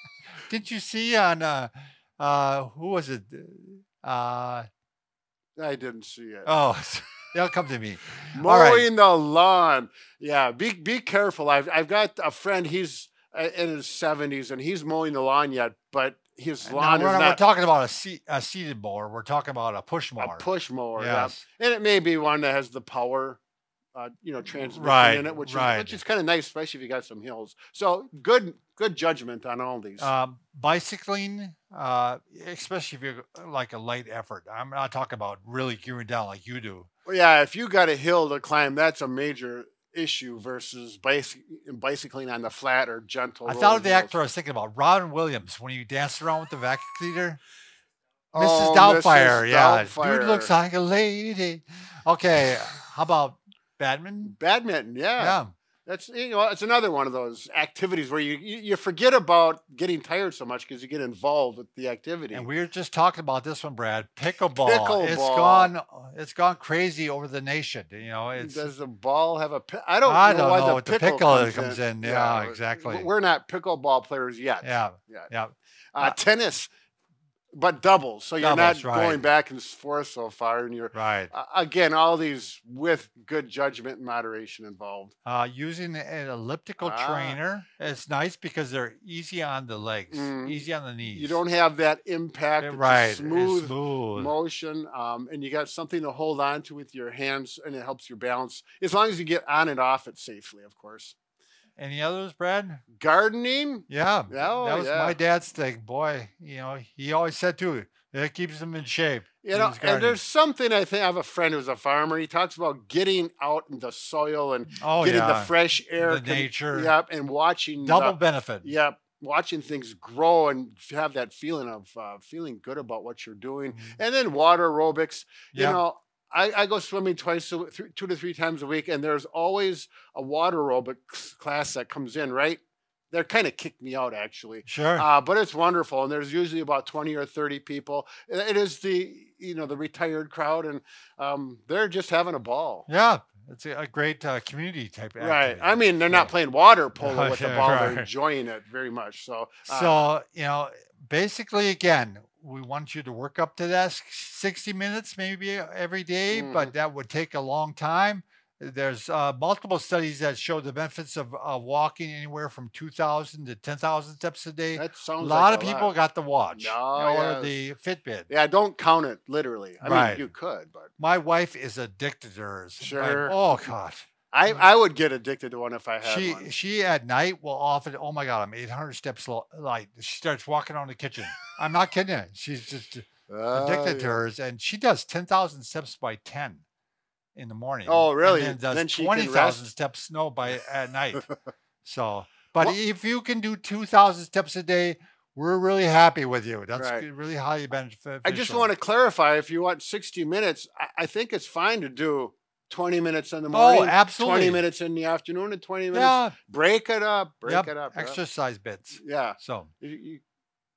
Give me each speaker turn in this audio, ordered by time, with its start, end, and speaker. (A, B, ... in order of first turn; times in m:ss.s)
0:00.5-0:04.7 A
0:05.6-0:06.5 B
0:06.4-0:08.9 A
0:08.3-0:17.4 B
0:16.6-0:21.4 A
0:20.2-0:23.4 B
0:24.0-0:30.1 B
0:24.5-0:26.0 A
0:30.0-0:36.9 A
0:37.1-0:44.1 B
0:43.4-0:47.4 A
0:48.3-0:50.5 B
0:48.4-0:54.3 A
0:54.3-1:02.5 B
0:55.2-0:55.5 A
1:02.3-1:08.7 A
1:04.6-1:05.7 B
1:08.4-1:15.3 B
1:10.0-1:13.1 A
1:14.6-1:16.2 A
1:15.9-1:16.7 B
1:17.5-1:25.1 B
1:18.4-1:19.2 A
1:20.9-1:21.3 A
1:25.2-1:31.4 A
1:26.8-1:27.4 B
1:30.1-1:41.2 B
1:32.6-1:34.3 A
1:41.8-1:42.8 A
1:43.0-1:45.2 B
1:43.9-1:50.2 A
1:49.4-2:12.6 B
1:54.7-1:56.9 A
1:57.8-1:58.7 A
2:03.7-2:04.0 A
2:05.5-2:05.8 A
2:13.1-2:22.9 B
2:14.6-2:15.1 A
2:22.9-2:26.3 A
2:25.2-2:30.1 B
2:27.0-2:28.1 A
2:29.7-2:48.3 A
2:36.3-2:36.7 B
2:44.8-2:46.0 B
2:46.6-2:47.5 B
2:48.3-2:50.9 B
2:49.8-2:50.3 A
2:51.0-2:54.6 A
2:52.8-2:53.4 B
2:54.3-2:56.5 B
2:56.0-3:06.6 A
3:03.3-3:04.2 B
3:07.4-3:11.3 A
3:07.9-3:09.7 B
3:11.8-3:18.7 A
3:16.8-3:17.1 B
3:18.2-3:28.2 B
3:23.5-3:24.6 A
3:25.9-3:26.4 A
3:27.5-3:29.7 A
3:29.0-3:30.2 B